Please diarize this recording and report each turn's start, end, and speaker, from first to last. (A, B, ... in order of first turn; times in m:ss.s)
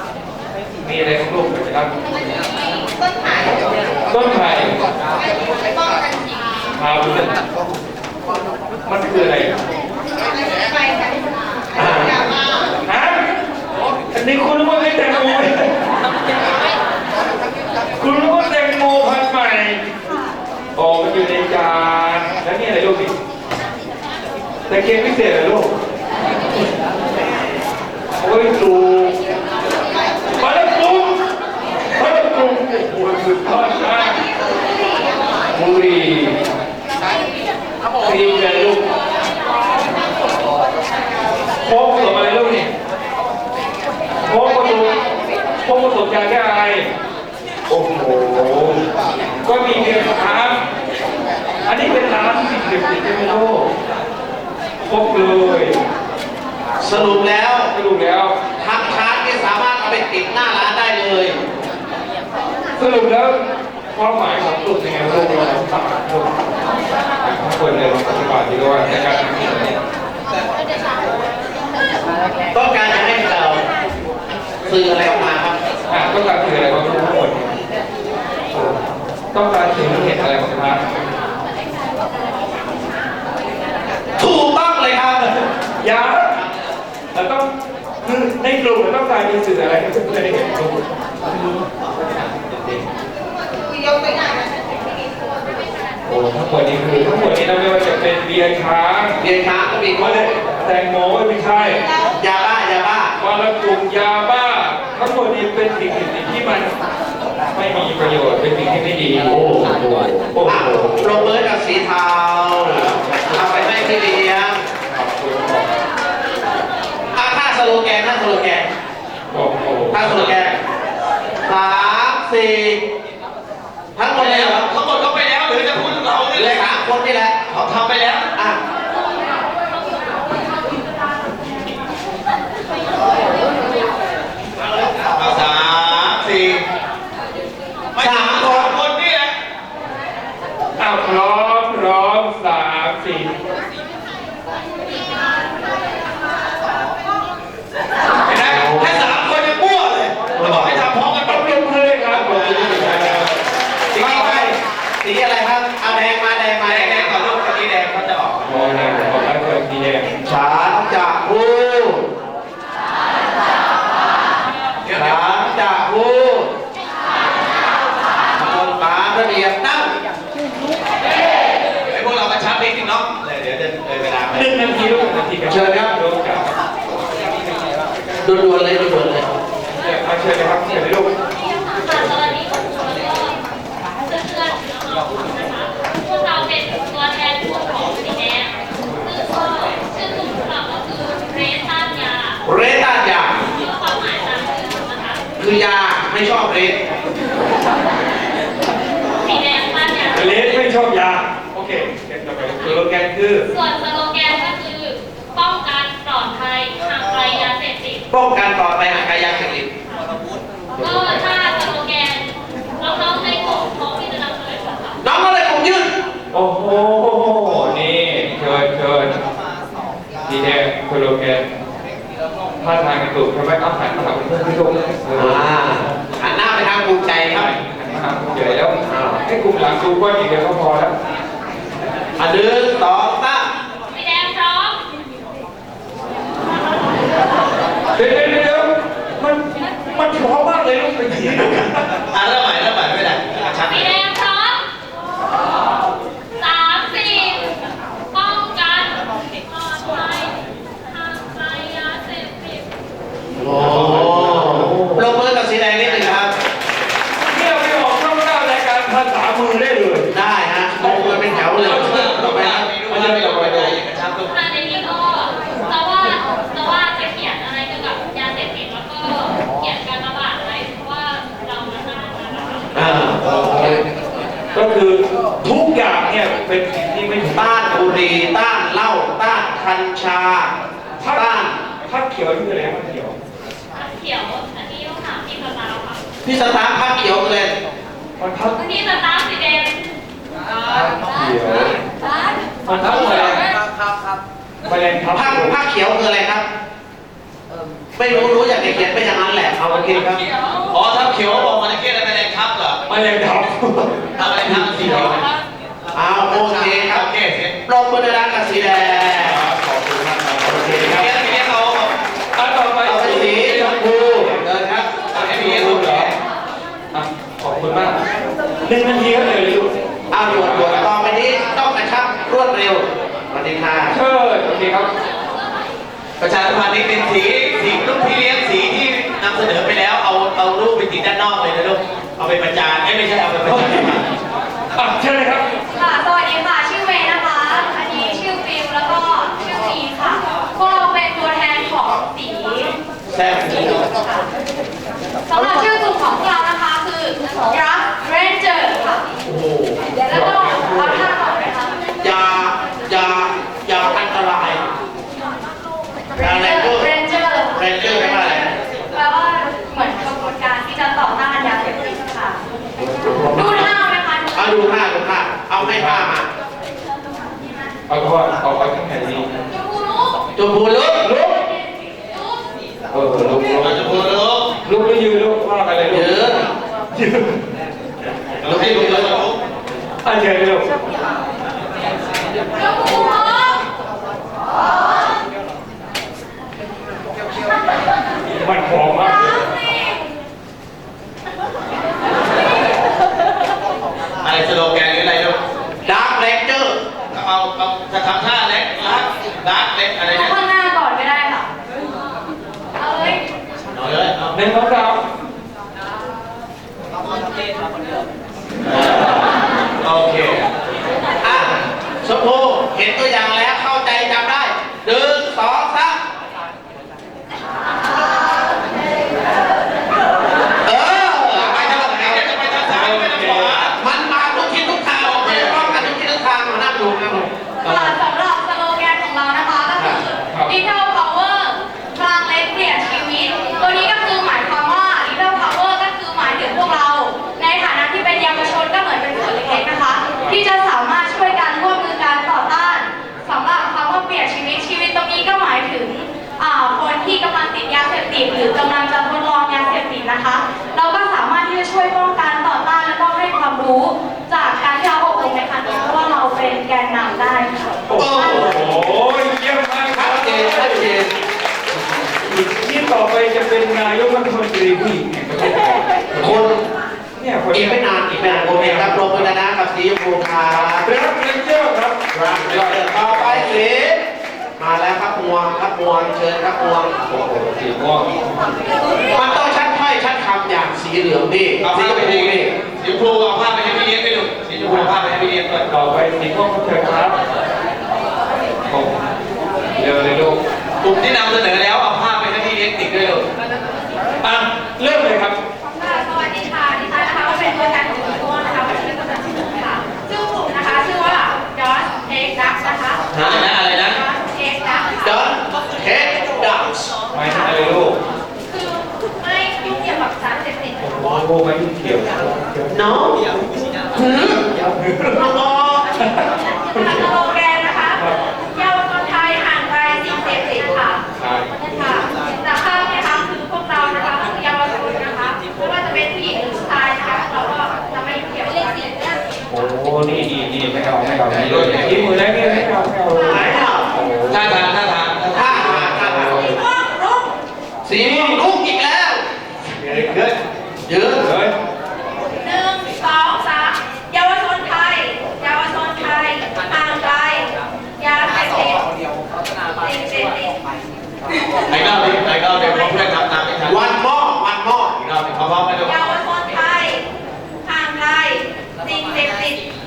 0:00.8-0:01.9 A
0:04.1-0:04.9 A
0:06.8-0:07.3 A
0:08.9-0:09.6 A
0:11.7-0:12.3 B
0:12.8-0:13.2 A
0:14.1-0:15.8 A
0:18.0-0:19.8 A
0:20.8-0:23.1 A
0:24.7-0:25.7 A
0:28.2-0:29.2 A
0:30.3-0:31.2 A
0:32.0-0:34.3 A
0:35.5-0:36.4 A
0:38.0-0:38.8 A
0:41.6-0:42.7 A
0:44.2-0:45.0 A
0:45.6-0:46.9 A
0:47.7-0:48.8 A
0:49.4-0:50.6 A
0:51.7-0:53.7 A
0:54.8-0:55.8 A
0:56.8-0:57.7 B
0:56.9-0:58.4 A
0:58.6-1:01.4 B
1:02.8-1:03.4 A
1:03.9-1:06.4 A
1:07.2-1:09.8 A
1:12.5-1:13.6 B
1:14.6-1:15.6 B
1:15.9-1:17.6 A
1:18.5-1:20.8 A
1:24.2-1:25.4 B
1:25.8-1:26.3 A
1:27.1-1:27.5 A
1:28.0-1:31.6 A
1:32.2-1:32.8 A
1:36.0-1:39.2 A
1:39.2-1:40.3 B
1:40.0-1:41.8 A
1:42.2-1:43.1 B
1:43.2-1:46.7 A
1:47.5-1:51.5 A
1:49.3-1:54.6 B
1:54.9-1:55.7 A
1:57.1-1:58.7 B
1:59.3-2:00.2 A
1:59.9-2:00.6 B
2:00.0-2:00.4 C
2:01.5-2:02.8 B
2:04.0-2:04.7 B
2:04.2-2:06.6 C
2:06.3-2:07.4 B
2:07.5-2:08.3 C
2:15.1-2:16.6 C
2:17.9-2:19.3 C
2:18.0-2:18.7 B
2:20.8-2:23.3 A
2:28.2-2:31.6 C
2:28.5-2:29.0 B
2:30.3-2:30.9 B
2:31.2-2:33.4 A
2:32.1-2:33.3 C
2:32.4-2:32.9 B
2:33.9-2:34.5 C
2:33.9-2:37.2 B
2:36.6-2:38.6 C
2:38.4-2:40.1 A
2:40.2-2:42.1 B
2:44.8-2:45.5 C
2:44.9-2:46.5 B
2:48.3-2:49.9 B
2:51.9-2:54.6 C
2:54.3-2:56.5 A
2:55.5-2:55.9 B
2:58.2-2:59.3 B
2:59.7-3:01.1 A
3:01.4-3:03.4 D
3:04.0-3:12.4 D
3:12.4-3:13.4 B
3:13.4-3:15.2 D
3:15.4-3:16.8 B
3:19.2-3:20.6 D
3:20.1-3:23.5 A
3:23.5-3:28.1 D
3:28.1-3:29.7 B
3:30.8-3:31.2 A
3:30.8-3:32.3 D
3:32.8-3:35.0 D
3:35.0-3:36.0 B
3:36.3-3:39.2 A
3:40.2-3:41.4 A
3:42.6-3:45.9 A
3:45.2-3:47.5 B
3:47.3-3:48.8 A
3:48.9-3:49.2 B
3:49.3-3:50.9 A
3:52.2-3:53.5 B
3:53.9-3:54.8 D
3:58.0-4:01.9 A
4:02.1-4:04.0 C
4:03.7-4:04.6 D
4:06.4-4:07.6 D
4:08.1-4:12.7 D
4:13.4-4:16.3 B
4:13.5-4:15.2 A
4:13.8-4:14.3 C
4:15.8-4:16.4 C
4:17.2-4:20.1 A
4:20.1-4:22.7 B
4:20.8-4:22.1 A
4:21.6-4:24.3 C
4:22.9-4:23.7 A
4:24.3-4:32.7 D
4:32.7-4:33.8 B
4:33.1-4:33.8 A
4:34.5-4:37.6 A
4:37.2-4:40.5 B
4:41.0-4:43.2 A
4:41.1-4:41.6 B
4:43.8-4:46.0 D
4:46.2-4:47.5 B
4:48.2-4:48.6 A
4:48.5-4:49.8 D
4:50.7-4:51.8 A
4:52.7-4:53.4 A
4:54.6-4:55.5 A
4:55.1-4:56.5 B
4:58.0-5:00.2 B
5:00.7-5:02.8 C
5:02.9-5:05.2 A
5:04.2-5:05.2 C
5:06.0-5:07.1 B
5:06.9-5:07.6 C
5:07.7-5:09.4 B
5:09.1-5:11.1 A
5:10.5-5:11.0 B
5:10.6-5:11.9 C
5:12.4-5:14.4 A
5:12.8-5:15.8 B
5:15.1-5:16.2 C
5:15.2-5:16.1 A
5:16.9-5:18.0 A
5:18.6-5:20.9 A
5:20.1-5:24.0 B
5:23.9-5:24.9 A
5:26.2-5:34.0 C
5:33.5-5:34.0 A
5:34.7-5:35.4 A
5:35.7-5:42.8 E
5:43.1-5:43.8 B
5:43.8-5:44.3 E
5:45.3-5:49.1 E
5:49.2-5:50.8 B
5:50.0-5:52.0 E
5:50.1-5:51.0 A
5:52.0-5:54.6 B
5:56.2-5:58.4 E
5:56.2-5:56.9 B
5:57.5-5:58.5 B
5:57.8-5:58.2 C
5:58.9-6:02.4 E
6:02.8-6:03.7 A
6:03.0-6:03.7 B
6:03.3-6:04.7 E
6:04.3-6:06.3 B
6:05.6-6:06.1 A
6:07.9-6:09.4 A
6:09.5-6:10.3 E
6:10.4-6:11.1 B
6:11.0-6:11.4 A
6:11.1-6:12.5 E
6:12.9-6:13.9 A
6:13.6-6:14.5 C
6:14.6-6:16.3 A
6:15.9-6:16.5 B
6:16.9-6:17.4 A
6:18.4-6:19.4 C
6:18.4-6:19.2 B
6:20.0-6:20.6 A
6:28.3-6:29.5 A
6:34.2-6:35.4 C
6:35.8-6:36.8 B
6:37.1-6:40.4 C
6:40.1-6:41.5 E
6:42.8-6:43.2 E
6:43.7-6:44.4 C
6:44.3-6:45.0 A
6:49.8-6:50.5 C
6:51.2-6:56.0 B
7:00.6-7:02.2 B
7:01.4-7:03.8 C
7:02.7-7:03.7 A
7:03.8-7:08.0 B
7:07.6-7:38.5 E
7:10.3-7:10.6 A
7:37.9-7:40.9 A
7:38.0-7:38.8 B
7:39.9-7:41.1 B
7:42.2-7:46.4 A
7:46.2-7:46.6 B
7:47.2-7:49.4 A
7:47.5-7:50.9 B
7:50.7-7:53.6 A
7:52.1-7:54.0 B
7:54.6-7:56.9 B
7:57.1-7:58.6 A
7:59.1-8:02.5 B
8:01.6-8:05.7 C
8:05.7-8:07.2 A
8:08.7-8:09.1 A
8:09.8-8:10.4 A
8:10.8-8:13.3 C
8:14.2-8:15.4 A
8:15.8-8:25.2 E
8:23.1-8:23.5 B
8:23.1-8:24.0 C
8:25.0-8:26.9 B
8:27.1-8:28.0 A
8:28.5-8:30.9 E
8:30.8-8:32.7 A
8:32.7-8:33.2 B
8:33.9-8:34.5 B
8:34.6-8:35.3 A
8:35.1-8:35.9 B
8:36.0-8:37.1 A
8:36.8-8:41.0 E
8:41.2-8:41.5 A
8:41.6-8:49.3 E
8:49.5-8:54.7 A
8:51.4-8:52.2 C
8:53.1-8:53.5 E
8:53.2-8:53.9 B
8:54.3-8:55.9 C
8:55.3-8:56.5 B
8:55.9-8:56.6 A
8:56.4-8:57.3 E
8:57.8-8:59.2 B
8:57.9-8:58.5 A
8:59.8-9:00.2 A
8:59.9-9:00.4 C
9:00.9-9:01.3 B
9:01.2-9:01.5 A
9:02.4-9:08.9 E
9:09.7-9:10.6 E
9:11.7-9:13.9 C
9:12.4-9:12.9 E
9:13.6-9:15.0 B
9:15.0-9:16.0 C
9:15.8-9:17.0 E
9:17.6-9:19.7 E